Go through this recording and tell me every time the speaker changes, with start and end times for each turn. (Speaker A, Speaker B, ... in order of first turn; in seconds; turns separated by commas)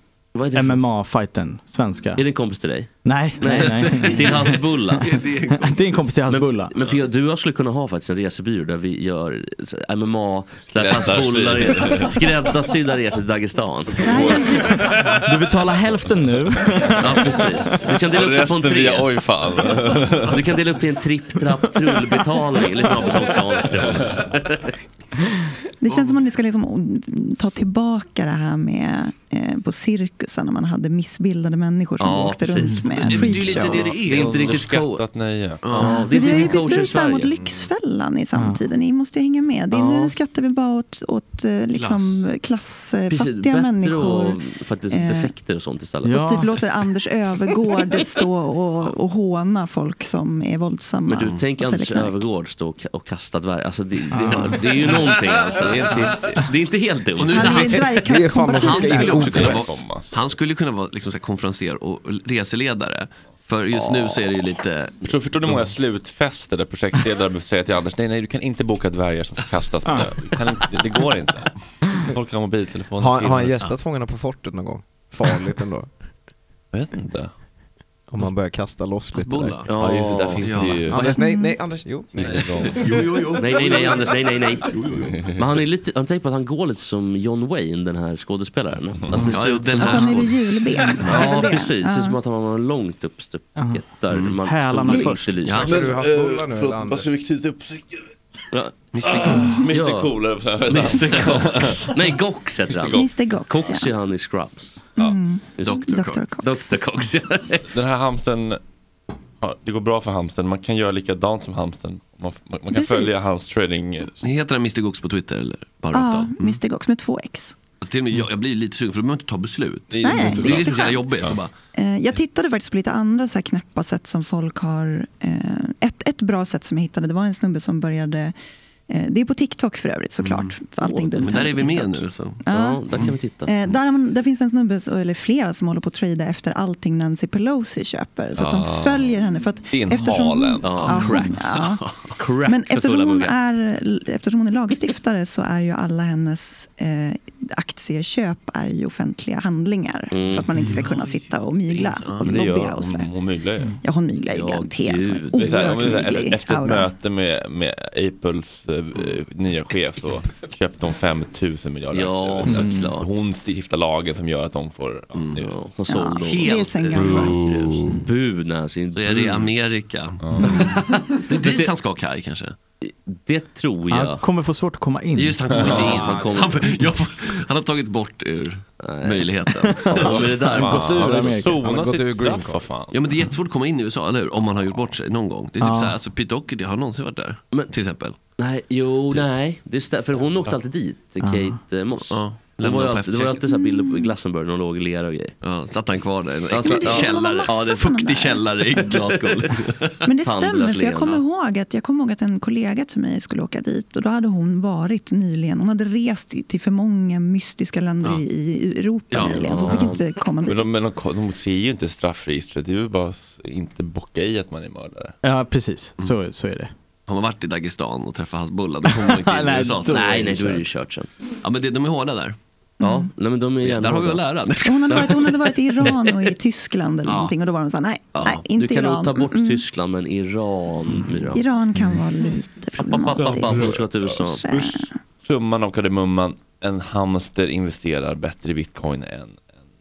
Speaker A: 0.3-0.8, Speaker B: 0.5-2.2, Speaker A: 2.2-5.1, Speaker B: 3.0-5.0, Speaker C: 3.4-6.0, Speaker B: 5.5-6.7, Speaker A: 6.3-14.5, Speaker D: 10.7-12.4, Speaker D: 14.0-15.4, Speaker E: 14.0-14.8, Speaker B: 14.7-17.9, Speaker A: 17.0-24.7, Speaker D: 18.0-20.5, Speaker D: 23.8-24.2, Speaker E: 25.8-34.0, Speaker C: 25.9-26.1, Speaker A: 32.0-35.0, Speaker B: 32.5-33.4, Speaker C: 33.0-34.7, Speaker D: 34.0-35.7, Speaker C: 35.6-36.8, Speaker A: 35.7-37.3, Speaker E: 35.9-45.3, Speaker B: 38.3-38.6, Speaker A: 39.7-40.1, Speaker C: 41.7-42.3, Speaker A: 43.1-46.3, Speaker B: 46.0-46.6, Speaker E: 46.1-52.2, Speaker A: 51.0-57.8, Speaker B: 54.1-54.8, Speaker C: 55.9-56.4, Speaker C: 57.1-65.6, Speaker E: 57.2-59.5, Speaker F: 57.6-59.7, Speaker D: 58.9-60.1, Speaker A: 63.7-64.3, Speaker D: 65.0-71.5, Speaker D: 72.0-73.7, Speaker F: 73.0-75.9, Speaker D: 76.7-77.3, Speaker F: 78.1-79.7, Speaker C: 79.1-81.2, Speaker A: 79.7-80.7, Speaker D: 79.8-81.2, Speaker F: 80.9-83.0, Speaker E: 81.1-81.5, Speaker D: 82.2-82.9, Speaker C: 82.2-85.2, Speaker A: 83.4-84.8, Speaker A: 85.3-90.3, Speaker C: 89.1-90.4, Speaker E: 89.6-92.2, Speaker C: 91.0-91.4, Speaker A: 91.0-95.8, Speaker B: 93.5-93.8, Speaker C: 94.1-94.4, Speaker B: 94.4-95.6, Speaker C: 95.4-95.8, Speaker D: 95.6-98.1, Speaker F: 95.6-97.1, Speaker A: 98.5-104.9, Speaker C: 98.9-99.5, Speaker D: 99.0-102.1, Speaker D: 102.7-103.1, Speaker E: 102.9-103.9, Speaker E: 105.0-106.8, Speaker A: 105.6-107.7, Speaker C: 105.6-106.2, Speaker D: 107.7-108.6, Speaker D: 109.4-114.3, Speaker E: 112.7-113.2, Speaker C: 114.2-116.6, Speaker E: 115.9-117.6, Speaker C: 117.8-121.5, Speaker D: 119.9-121.4, Speaker E: 120.0-121.1, Speaker E: 121.7-128.3, Speaker E: 128.9-141.8, Speaker C: 130.2-130.5, Speaker A: 130.8-131.7, Speaker C: 131.2-133.1, Speaker A: 132.5-133.5, Speaker D: 138.3-141.0, Speaker A: 140.6-143.3, Speaker C: 140.8-142.0, Speaker E: 142.4-153.1, Speaker A: 150.1-150.5, Speaker C: 150.5-152.4, Speaker D: 152.2-153.7, Speaker E: 153.8-156.9, Speaker A: 154.3-155.9, Speaker D: 155.3-165.5, Speaker A: 161.9-163.1, Speaker B: 162.5-162.9, Speaker C: 165.1-165.4, Speaker A: 165.3-171.7, Speaker E: 165.9-167.6, Speaker C: 166.2-167.7, Speaker D: 166.9-168.0, Speaker C: 169.0-172.6, Speaker D: 170.2-170.8, Speaker A: 172.8-174.2, Speaker B: 173.9-175.6, Speaker C: 175.1-180.3, Speaker D: 175.5-176.1, Speaker A: 175.6-176.8, Speaker A: 178.8-181.3, Speaker D: 179.9-183.0, Speaker B: 180.1-181.6, Speaker F: 181.6-182.7, Speaker C: 182.9-188.2, Speaker B: 185.6-186.0, Speaker A: 188.4-195.3, Speaker B: 191.2-191.6, Speaker C: 192.0-193.4, Speaker E: 193.4-194.1, Speaker C: 195.4-200.0, Speaker A: 196.5-197.9, Speaker E: 196.6-198.5, Speaker A: 198.7-201.2, Speaker E: 200.0-210.7, Speaker C: 209.1-209.9, Speaker A: 209.1-210.0, Speaker D: 210.4-215.2, Speaker B: 215.2-216.7, Speaker C: 217.1-220.4, Speaker B: 218.9-220.6, Speaker A: 219.8-221.1, Speaker C: 221.4-222.4, Speaker E: 222.8-223.1, Speaker A: 222.8-225.2, Speaker C: 223.6-226.2, Speaker E: 224.6-229.6, Speaker A: 228.1-231.4, Speaker E: 231.3-235.0, Speaker A: 232.9-234.5, Speaker D: 232.9-239.4